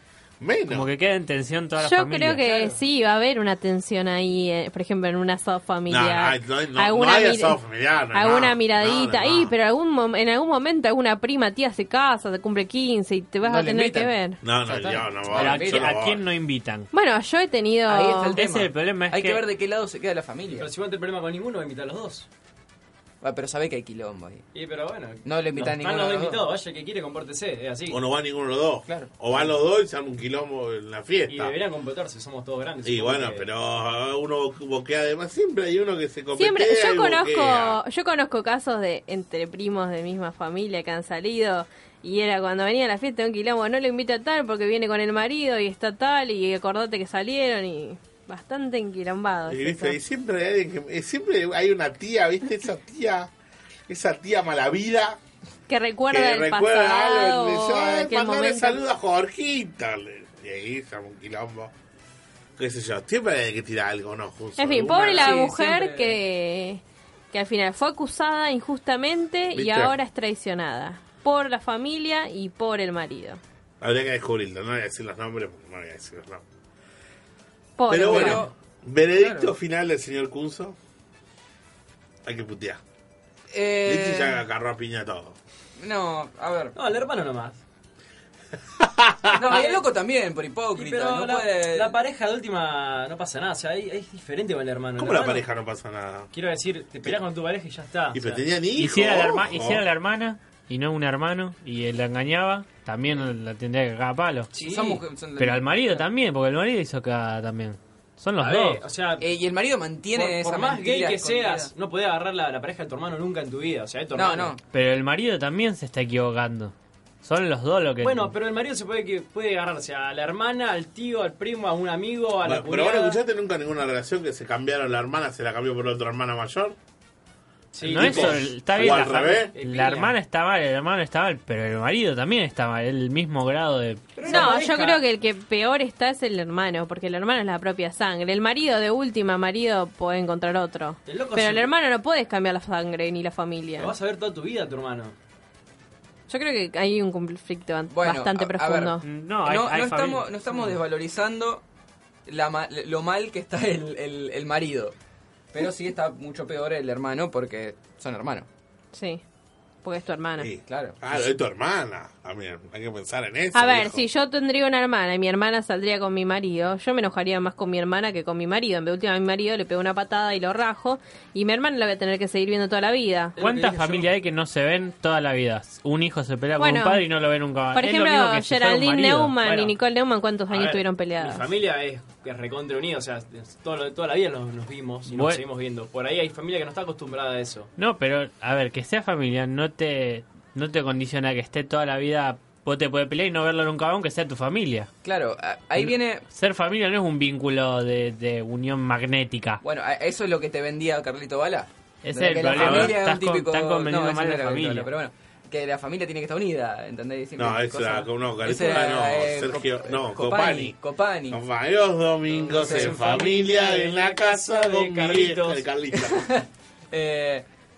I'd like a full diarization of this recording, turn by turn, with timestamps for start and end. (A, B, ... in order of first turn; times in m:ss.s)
0:00.4-0:00.9 A
0:00.7-0:02.4 B
0:01.8-0:07.6 C
0:02.4-0:02.8 D
0:05.9-0:09.5 A
0:08.1-0:14.4 C
0:13.4-0:14.1 E
0:14.4-0:16.2 A
0:14.7-0:16.0 E
0:15.3-0:16.9 B
0:16.9-0:18.4 C
0:17.9-0:20.7 E
0:18.3-0:19.4 B
0:20.5-0:22.3 D
0:23.2-0:24.5 E
0:24.5-0:28.0 D
0:25.2-0:26.5 E
0:27.9-0:31.6 A
0:28.9-0:29.1 E
0:31.3-0:33.5 D
0:32.8-0:37.8 A
0:36.4-0:50.0 C
0:49.5-0:53.3 A
0:53.9-0:55.2 A
0:55.7-0:58.8 C
0:56.1-1:01.7 A
1:02.6-1:05.4 A
1:04.6-1:13.4 C
1:05.0-1:06.2 E
1:09.5-1:10.0 A
1:13.8-1:16.4 A
1:17.8-1:18.5 C
1:17.9-1:20.8 A
1:17.9-1:18.5 E
1:19.2-1:19.5 E
1:22.2-1:22.8 A
1:23.5-1:24.4 E
1:23.8-1:25.4 A
1:25.8-1:26.8 E
1:26.8-1:27.6 D
1:28.8-1:29.6 A
1:29.3-1:32.0 E
1:29.5-1:29.8 D
1:30.8-1:35.4 D
1:35.0-1:36.3 A
1:36.3-1:38.4 D
1:38.1-1:39.8 A
1:38.8-1:44.5 B
1:44.5-1:45.0 D
1:44.6-1:46.0 E
1:45.4-1:48.8 B
1:48.4-1:49.3 D
1:49.2-1:51.7 E
1:50.2-1:54.6 D
1:54.1-1:54.6 E
1:54.7-1:58.3 B
1:58.0-2:03.2 D
2:02.4-2:06.8 A
2:07.7-2:10.2 D
2:07.8-2:09.5 A
2:07.8-2:14.5 B
2:14.2-2:15.0 D
2:14.2-2:23.9 C
2:21.1-2:21.7 D
2:23.8-2:25.2 D
2:26.3-2:29.0 C
2:27.9-2:31.6 E
2:29.0-2:30.3 B
2:32.3-2:35.0 E
2:35.5-2:38.5 E
2:38.9-2:39.2 C
2:39.8-2:40.5 C
2:40.4-2:44.1 A
2:40.7-2:41.3 E
2:43.5-2:53.4 C
2:53.4-2:54.1 D
2:53.4-2:59.4 B
2:56.6-2:57.0 C
2:57.7-3:01.4 C
2:59.4-2:59.8 D
3:00.5-3:07.7 D
3:05.1-3:05.4 B
3:07.8-3:14.9 B
3:15.0-3:16.2 E
3:15.8-3:19.6 B
3:19.6-3:31.4 E
3:22.0-3:24.9 B
3:22.5-3:23.0 A
3:27.4-3:30.8 A
3:31.3-3:36.3 A
3:32.3-3:35.6 D
3:32.5-3:33.2 E
3:36.0-3:37.4 E